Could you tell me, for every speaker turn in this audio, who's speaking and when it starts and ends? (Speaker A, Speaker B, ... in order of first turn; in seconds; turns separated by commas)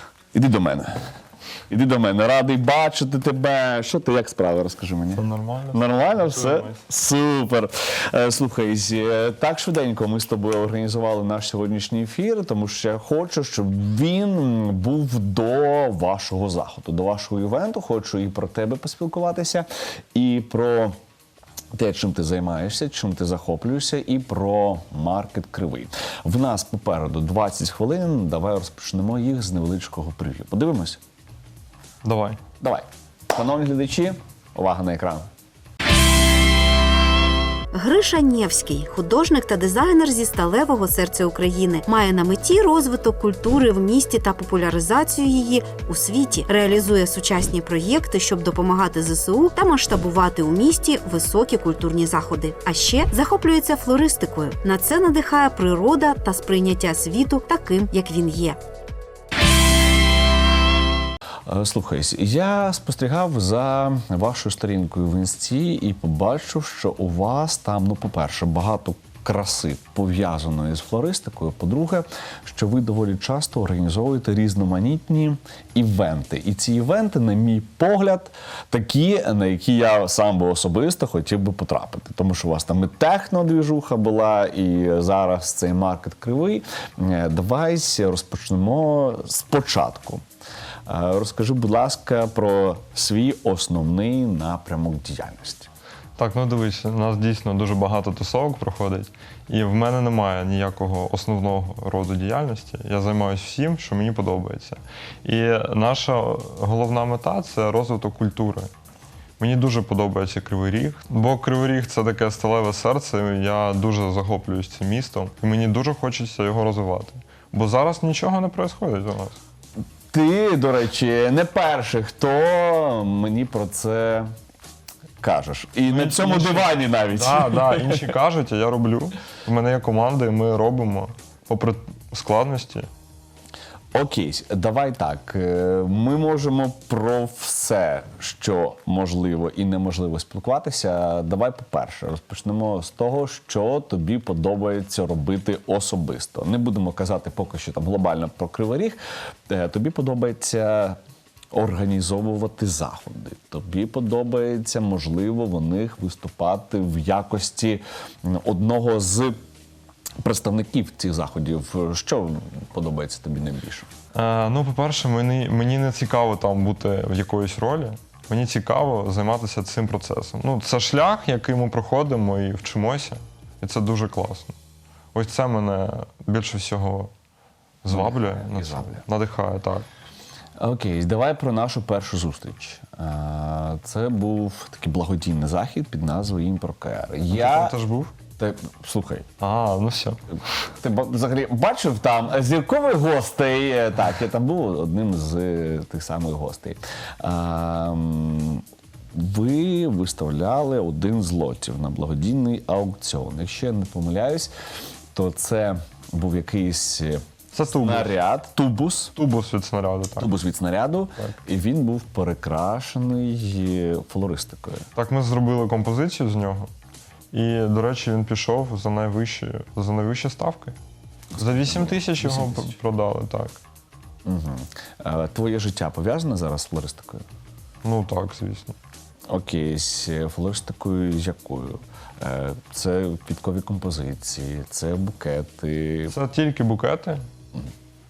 Speaker A: 0.3-0.9, Speaker A: 1.7-21.0, Speaker B: 5.1-6.8, Speaker A: 21.8-31.0, Speaker B: 32.0-32.4, Speaker A: 32.6-35.3, Speaker C: 37.7-58.6, Speaker A: 61.5-90.2, Speaker A: 90.9-95.7, Speaker B: 96.2-108.7, Speaker B: 109.4-119.4, Speaker A: 120.1-124.3, Speaker A: 125.2-128.1, Speaker B: 125.9-132.9, Speaker A: 133.9-151.0, Speaker A: 151.5-159.4, Speaker A: 160.2-163.9, Speaker B: 164.2-174.5, Speaker B: 175.1-177.1, Speaker B: 177.8-179.9, Speaker A: 177.9-179.1, Speaker A: 180.6-187.8, Speaker B: 187.3-188.1, Speaker A: 188.4-189.3, Speaker B: 189.4-190.2, Speaker A: 190.7-204.5, Speaker A: 205.1-209.1, Speaker B: 207.5-208.1, Speaker B: 209.2-210.3, Speaker A: 210.2-214.9, Speaker B: 215.0-216.7, Speaker B: 217.3-220.8, Speaker A: 221.3-222.7, Speaker B: 221.4-223.6, Speaker A: 224.2-227.2, Speaker B: 227.8-228.8, Speaker A: 229.3-236.2, Speaker B: 236.1-237.2